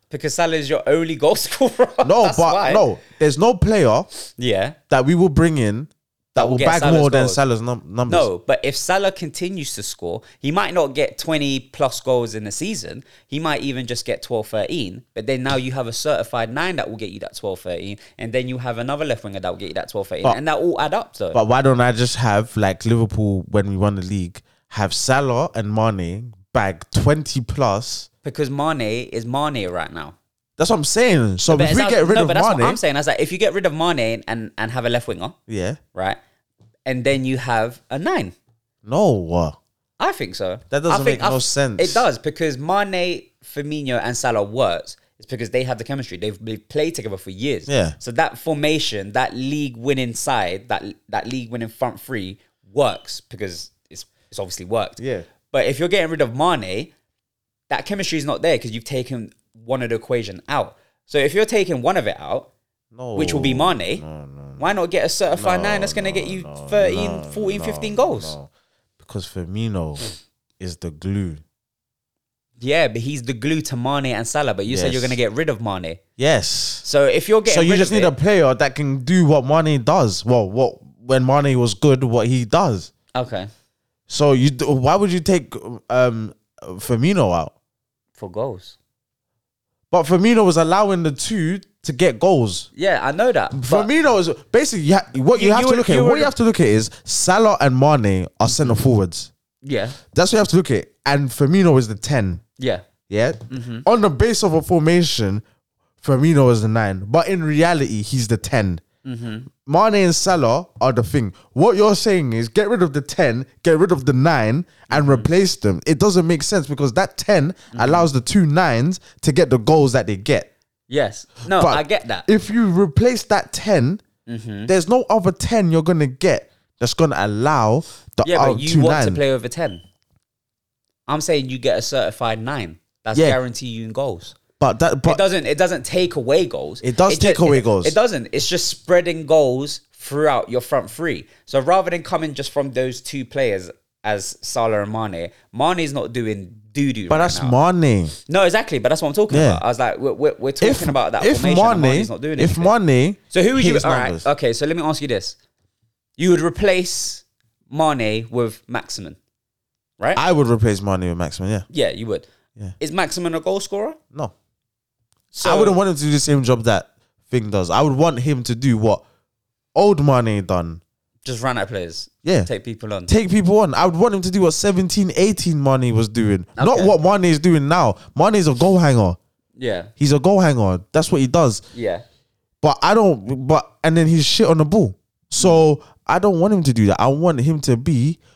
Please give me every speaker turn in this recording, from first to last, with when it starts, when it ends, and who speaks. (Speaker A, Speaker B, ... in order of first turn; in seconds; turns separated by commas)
Speaker A: 0.1-2.9, Speaker B: 2.0-4.1, Speaker A: 4.3-4.8, Speaker B: 4.9-8.3, Speaker A: 6.4-7.4, Speaker A: 8.1-21.4, Speaker B: 21.3-28.1, Speaker A: 28.2-30.2, Speaker B: 30.6-32.8, Speaker A: 31.5-35.4, Speaker B: 35.5-35.8, Speaker A: 35.9-36.2, Speaker A: 36.9-38.4, Speaker B: 38.8-39.6, Speaker A: 40.0-55.0, Speaker B: 40.7-42.1, Speaker B: 47.7-48.0, Speaker B: 55.0-55.3, Speaker A: 55.5-56.9, Speaker A: 57.7-62.5, Speaker B: 62.9-64.7, Speaker A: 63.1-64.0, Speaker A: 64.6-68.3, Speaker B: 65.3-70.0, Speaker B: 70.6-71.4, Speaker A: 72.6-76.0, Speaker B: 74.7-75.2, Speaker B: 76.2-76.9, Speaker A: 76.8-78.1, Speaker B: 77.5-82.9, Speaker A: 83.1-83.5, Speaker B: 84.1-87.5, Speaker A: 88.2-88.8, Speaker B: 89.9-92.7, Speaker A: 92.7-93.9, Speaker B: 93.5-99.3, Speaker A: 95.3-96.3, Speaker A: 98.5-98.8, Speaker A: 99.6-100.0, Speaker B: 100.1-102.4, Speaker A: 102.6-102.8, Speaker B: 103.1-105.4, Speaker A: 103.5-103.8, Speaker B: 106.0-108.8, Speaker A: 109.0-109.5, Speaker B: 109.5-120.5, Speaker A: 114.9-115.3, Speaker A: 117.7-118.1, Speaker A: 120.9-122.3, Speaker B: 121.5-124.0, Speaker A: 124.3-124.7, Speaker B: 124.7-129.2, Speaker A: 128.2-129.8, Speaker A: 131.1-134.4, Speaker B: 134.6-135.2, Speaker A: 135.1-147.6, Speaker B: 136.8-138.0, Speaker B: 147.1-148.2, Speaker A: 148.3-152.7, Speaker B: 149.3-149.6, Speaker B: 150.6-154.3, Speaker A: 153.3-155.4, Speaker A: 156.2-159.2, Speaker B: 160.2-161.7, Speaker A: 161.7-162.3, Speaker A: 162.8-164.0, Speaker A: 165.3-165.8, Speaker B: 165.4-169.0, Speaker B: 169.8-170.8, Speaker A: 171.2-173.1, Speaker B: 172.2-172.5, Speaker B: 173.1-179.2, Speaker A: 176.6-176.9, Speaker A: 179.6-179.9, Speaker B: 180.0-181.7, Speaker A: 181.7-182.0, Speaker B: 182.6-188.2